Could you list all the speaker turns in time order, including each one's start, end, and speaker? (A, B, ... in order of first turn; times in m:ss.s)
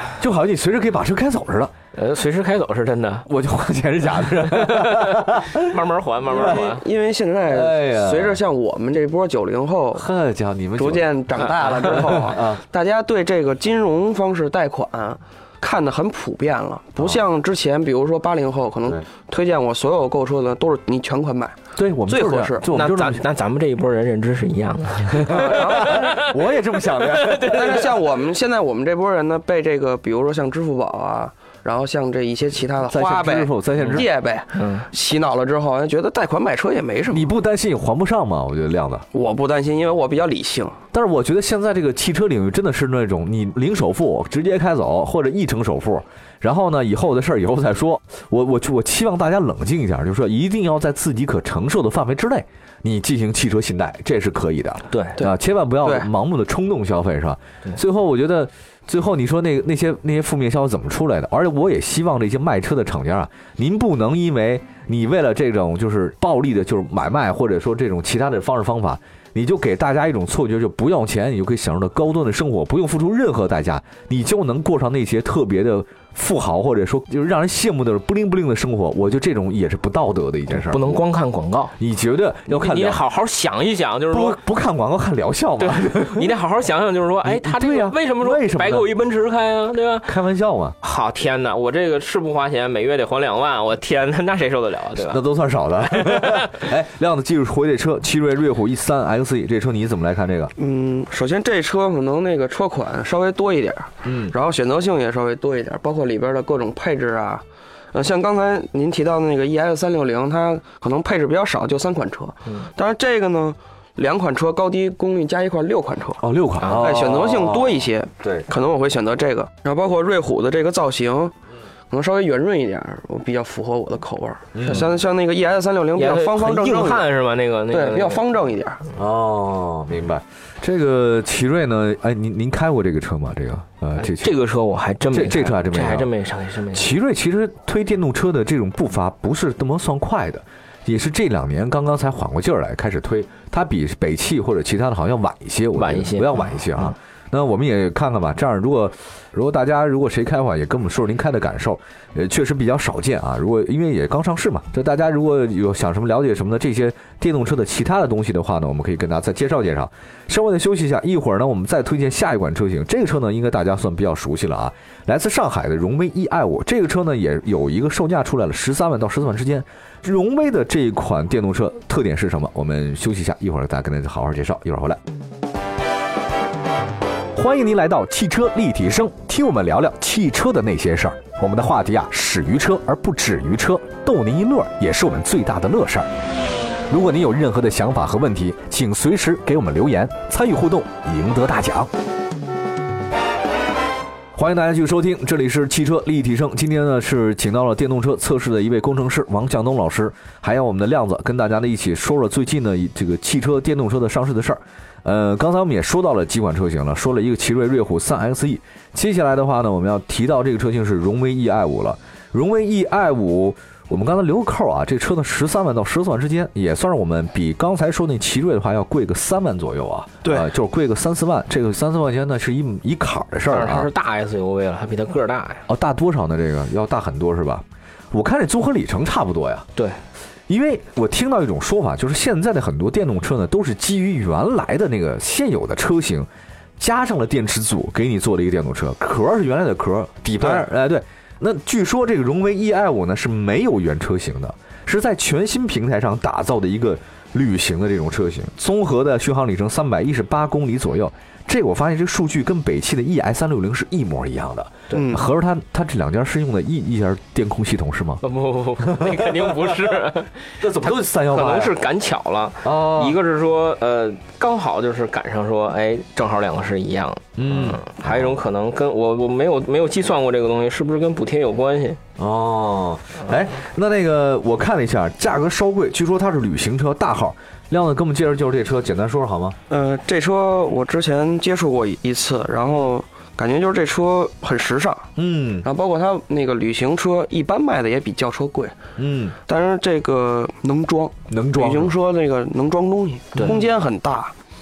0:00.2-0:01.7 A
0:01.9-0:03.3 B
0:03.3-0:05.8 A
0:04.3-0:06.8 B
0:06.3-0:10.1 C
0:06.3-0:06.6 A
0:07.5-0:08.4 A
0:09.9-0:11.1 A
0:10.8-0:22.7 C
0:11.6-0:11.9 B
0:11.8-0:12.6 A
0:21.8-0:23.2 A
0:22.6-0:26.3 B
0:25.2-0:27.9 A
0:25.2-0:26.0 C
0:27.0-0:27.8 B
0:27.4-0:37.3 C
0:32.8-0:34.1 A
0:33.8-0:34.0 B
0:34.6-0:34.9 B
0:37.1-0:39.0 A
0:39.1-0:40.8 C
0:40.9-1:21.0 A
0:54.9-0:55.2 B
0:55.2-0:56.1 C
1:20.5-1:21.7 B
1:21.8-1:23.0 A
1:22.5-1:24.4 B
1:24.1-1:26.3 A
1:25.6-1:30.1 B
1:27.2-1:28.9 A
1:30.1-1:30.8 A
1:30.8-1:35.2 B
1:35.0-1:40.5 A
1:35.9-1:36.6 B
1:40.6-2:01.3 C
1:44.0-1:44.4 A
1:56.2-1:58.4 A
1:56.6-1:57.0 B
2:01.9-2:07.1 C
2:04.6-2:04.9 A
2:06.0-2:08.2 B
2:07.7-2:08.8 C
2:09.0-2:14.3 A
2:14.0-2:16.9 B
2:15.1-2:16.1 A
2:16.7-2:55.0 A
2:25.7-2:26.9 B
2:57.4-3:06.1 A
3:06.9-3:11.9 A
3:14.4-3:43.9 A
3:43.5-3:45.6 B
3:45.7-3:49.7 A
3:50.5-4:18.2 A
4:14.9-4:15.3 C
4:18.2-4:20.4 B
4:18.8-4:19.9 A
4:20.6-4:21.8 A
4:21.2-4:32.0 B
4:22.6-4:23.2 A
4:27.4-4:28.4 A
4:32.2-4:39.6 A
4:39.7-4:45.1 C
4:45.2-4:45.7 A
4:45.6-4:48.8 C
4:49.0-4:49.4 A
4:49.4-4:54.3 C
4:51.3-4:52.0 A